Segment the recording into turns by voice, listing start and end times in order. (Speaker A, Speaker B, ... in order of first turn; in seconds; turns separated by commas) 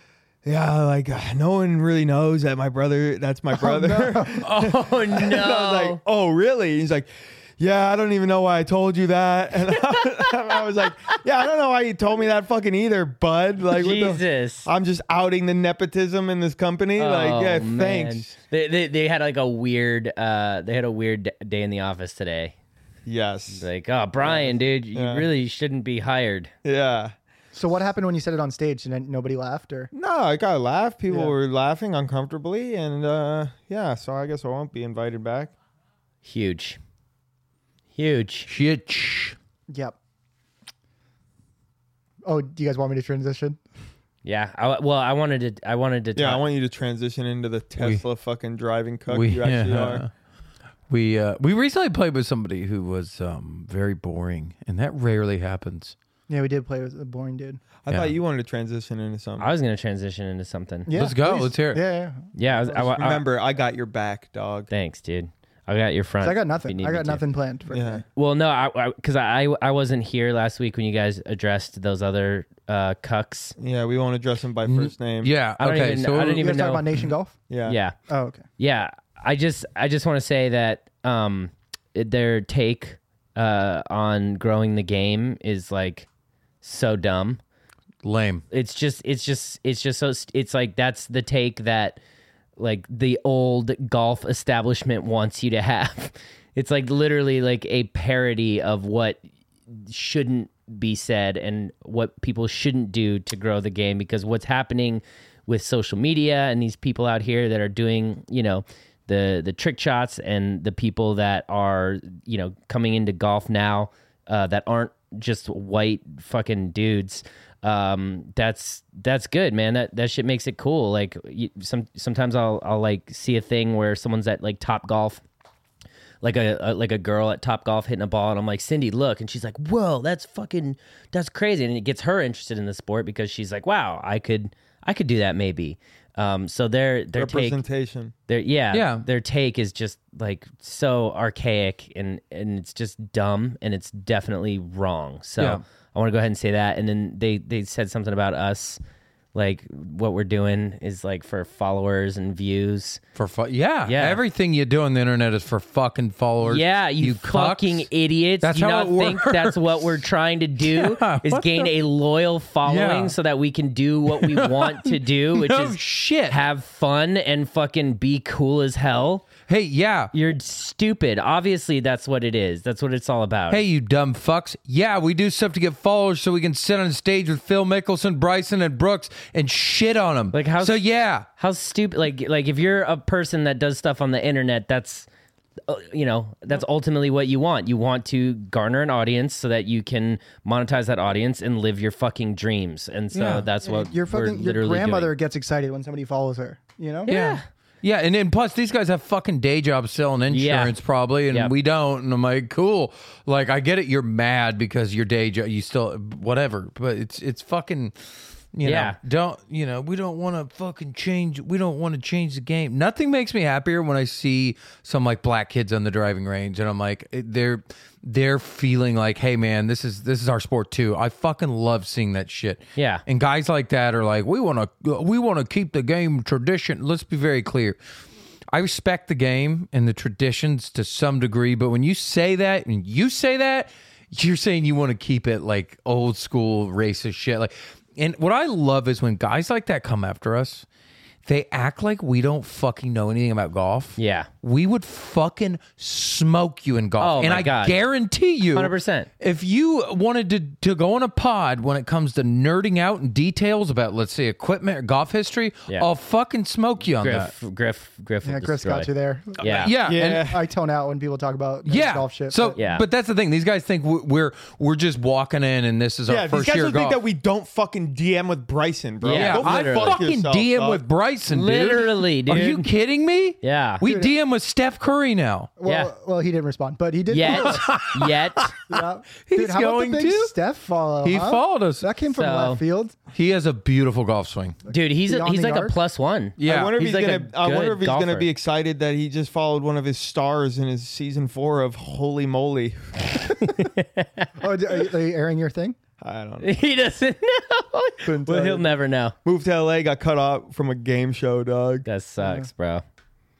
Speaker A: 0.4-18.3, Speaker B: 3.5-4.4, Speaker C: 4.4-6.0, Speaker C: 13.7-14.7, Speaker C: 17.0-22.5, Speaker A: 23.1-23.6, Speaker C: 23.5-26.5, Speaker A: 24.2-25.3, Speaker A: 26.6-27.1, Speaker B: 27.5-29.9, Speaker A: 29.9-35.5, Speaker B: 31.1-31.4, Speaker C: 36.2-36.8, Speaker C: 37.9-38.5, Speaker D: 38.5-39.4, Speaker B: 39.7-40.0, Speaker B: 42.2-43.6, Speaker C: 44.2-46.4, Speaker A: 46.1-50.0, Speaker D: 47.8-48.0, Speaker D: 49.1-50.1, Speaker D: 50.9-55.9, Speaker B: 56.3-57.6, Speaker A: 57.8-59.5, Speaker D: 57.9-58.1, Speaker C: 59.4-60.9, Speaker B: 60.9-62.8, Speaker D: 60.9-61.8, Speaker C: 62.3-63.2, Speaker A: 62.7-64.7, Speaker C: 64.7-67.2, Speaker B: 66.2-68.0, Speaker A: 67.7-68.0, Speaker C: 68.1-73.5, Speaker A: 73.6-75.3, Speaker D: 74.7-76.5, Speaker C: 75.6-76.8, Speaker B: 76.4-77.4, Speaker A: 77.5-77.8, Speaker C: 77.7-78.0, Speaker B: 78.1-78.4, Speaker C: 78.6-86.1, Speaker C: 86.6-87.4, Speaker D: 88.0-88.4, Speaker C: 88.5-92.0, Speaker C: 92.6-125.2, Speaker C: 126.2-137.6, Speaker A: 137.2-138.1, Speaker C: 138.3-148.8, Speaker D: 138.7-139.1, Speaker C: 149.3-153.0, Speaker D: 153.1-157.9, Speaker C: 153.8-154.2, Speaker C: 156.4-169.3, Speaker D: 158.4-159.9, Speaker D: 160.6-161.7, Speaker D: 162.6-163.1, Speaker D: 164.1-166.4, Speaker D: 169.5-170.1, Speaker C: 170.1-173.6, Speaker D: 173.5-181.3, Speaker C: 180.3-185.1, Speaker C: 185.7-195.1, Speaker D: 193.1-193.5, Speaker B: 193.6-197.1, Speaker C: 197.1-197.4, Speaker D: 197.1-227.8, Speaker C: 200.3-200.8, Speaker C: 208.6-209.0, Speaker C: 222.8-223.0, Speaker D: 228.5-240.7, Speaker D: 241.2-257.3, Speaker C: 244.0-244.3, Speaker C: 247.0-247.8, Speaker C: 248.5-249.1, Speaker C: 257.0-259.7, Speaker B: 258.2-262.6, Speaker D: 259.4-260.3, Speaker A: 259.8-260.4, Speaker D: 261.6-267.0, Speaker C: 262.6-262.8, Speaker A: 266.1-270.8, Speaker C: 269.0-270.0, Speaker D: 269.1-275.5, Speaker C: 271.3-272.7, Speaker C: 273.4-273.8, Speaker B: 273.8-274.1, Speaker B: 275.6-277.8, Speaker C: 275.6-275.9, Speaker C: 277.1-278.5, Speaker D: 277.2-280.3, Speaker B: 278.7-282.9, Speaker D: 281.0-281.9, Speaker C: 282.1-282.6, Speaker D: 283.1-284.6, Speaker B: 284.6-285.8, Speaker C: 284.7-288.3, Speaker D: 286.4-286.8, Speaker A: 286.4-293.4, Speaker C: 293.2-294.3, Speaker B: 294.4-295.8, Speaker A: 296.0-296.5, Speaker C: 296.4-299.1, Speaker A: 298.0-298.7, Speaker A: 299.2-301.9, Speaker C: 301.8-302.8, Speaker B: 302.2-302.5